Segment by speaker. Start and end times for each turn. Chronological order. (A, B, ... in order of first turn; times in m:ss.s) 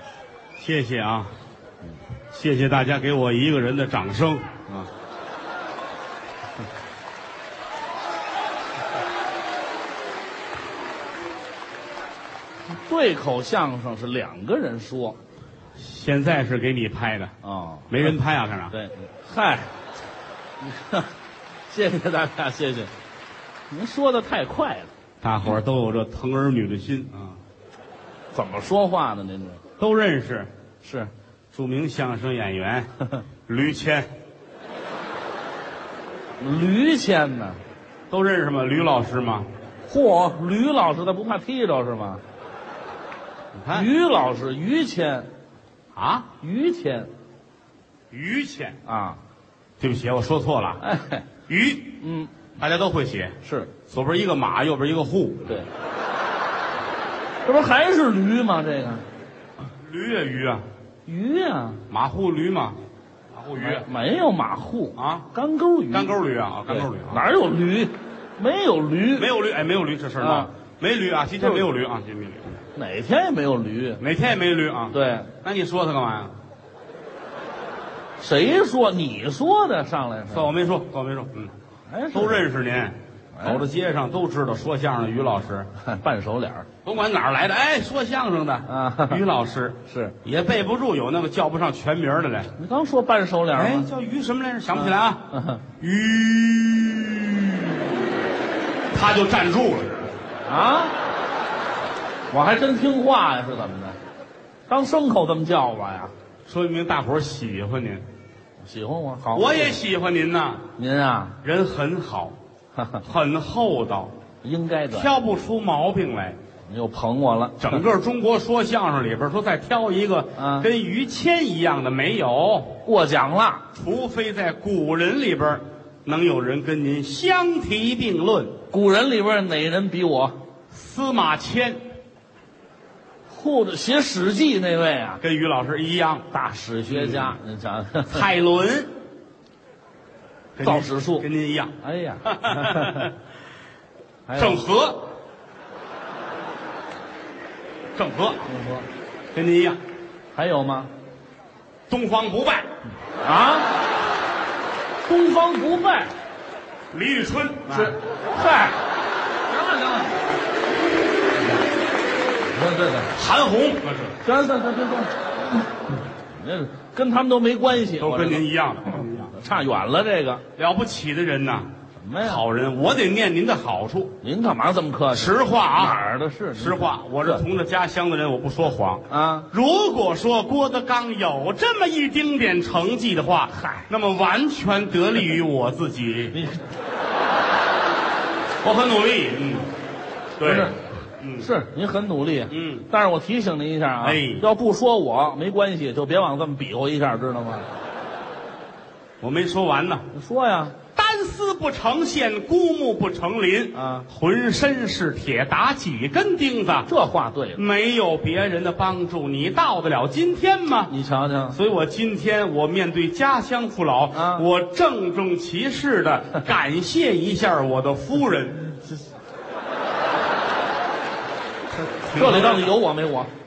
0:00.6-0:01.3 A
0:02.3-0:04.9 A
0:12.7-0:15.2 B
0:15.8-0:17.3 A
0:17.4-0:18.0 B
0:17.9-0:18.7 A
0:18.7-0:19.7 B
0:20.6-0:21.1 B
0:21.7-0:22.9 B
0:23.7-0:24.9 B
0:25.2-0:27.4 A
0:28.3-0:29.6 B
0:29.8-0:30.5 A
0:30.8-0:31.1 B
0:31.5-0:32.9 A
0:33.5-0:34.1 A
0:36.4-0:37.6 B
0:38.1-0:39.5 A
0:39.9-0:42.2 B
0:43.6-0:43.9 A
0:43.7-0:45.3 B
0:46.0-0:46.3 A
0:46.4-0:47.1 B
0:48.1-0:48.8 A
0:48.9-0:49.2 B
0:49.8-0:50.8 A
0:50.8-0:51.3 B
0:51.5-0:52.0 A
0:52.0-0:52.3 B
0:52.6-0:53.4 A
0:53.4-0:53.7 B
0:53.9-0:55.6 A
0:57.4-0:59.0 B
0:59.6-1:00.6 A
1:01.1-1:01.8 B
1:01.9-1:02.8 A
1:03.3-1:03.9 A
1:03.6-1:06.1 B
1:05.0-1:05.3 A
1:05.9-1:07.2 A
1:06.7-1:09.3 B
1:09.2-1:12.6 A
1:10.2-1:10.5 B
1:12.8-1:14.0 B
1:14.0-1:16.4 A
1:14.9-1:15.3 B
1:18.2-1:20.5 B
1:20.3-1:21.5 A
1:21.9-1:22.5 B
1:22.1-1:25.7 A
1:23.4-1:23.6 B
1:25.8-1:26.7 B
1:26.8-1:32.5 A
1:28.7-1:29.2 B
1:29.9-1:30.2 B
1:32.6-1:33.9 B
1:33.5-1:35.3 A
1:34.8-1:35.6 B
1:35.8-1:37.8 A
1:38.9-1:40.2 A
1:40.5-1:40.9 B
1:42.3-1:44.0 B
1:44.7-1:46.1 B
1:46.5-1:48.0 A
1:48.6-1:49.8 B
1:49.3-1:50.7 A
1:50.8-1:51.4 B
1:51.4-1:52.4 A
1:52.8-1:53.0 B
1:53.0-1:54.1 A
1:54.4-1:55.1 B
1:54.9-1:56.4 A
1:56.7-1:57.8 B
1:57.6-2:02.8 A
2:00.4-2:00.7 B
2:02.8-2:03.6 B
2:03.7-2:08.6 A
2:08.7-2:10.4 B
2:10.7-2:11.8 A
2:13.3-2:15.2 B
2:15.2-2:16.3 A
2:16.3-2:18.3 B
2:16.9-2:17.4 A
2:18.1-2:18.9 A
2:20.6-2:21.7 A
2:20.6-2:21.3 B
2:21.8-2:23.1 B
2:22.2-2:23.1 A
2:24.3-2:24.6 B
2:24.4-2:25.1 A
2:28.0-2:28.4 A
2:28.5-2:28.9 B
2:29.3-2:29.8 A
2:30.4-2:30.9 B
2:31.9-2:32.7 A
2:33.2-2:33.7 B
2:35.0-2:36.1 B
2:36.9-2:38.0 A
2:37.7-2:38.8 B
2:39.5-2:40.2 B
2:42.5-2:43.1 B
2:43.1-2:44.2 A
2:44.2-2:50.4 B
2:48.0-2:49.3 A
2:50.6-2:51.7 A
2:52.0-2:52.4 B
2:52.2-2:54.2 A
2:54.2-2:57.4 B
2:55.1-2:56.0 A
2:56.6-3:06.4 A
2:59.1-2:59.5 B
3:03.5-3:03.9 B
3:06.3-3:06.6 B
3:08.6-3:09.7 A
3:10.4-3:11.5 A
3:10.4-3:10.8 B
3:11.4-3:17.7 B
3:12.5-3:12.9 A
3:14.0-3:14.4 A
3:19.2-3:20.0 A
3:20.1-3:20.8 B
3:21.0-3:26.9 A
3:23.7-3:24.1 B
3:26.9-3:27.6 B
3:27.6-3:30.9 A
3:30.9-3:31.6 B
3:31.5-3:38.9 A
3:34.2-3:34.4 B
3:41.9-3:42.7 A
3:42.1-3:43.3 B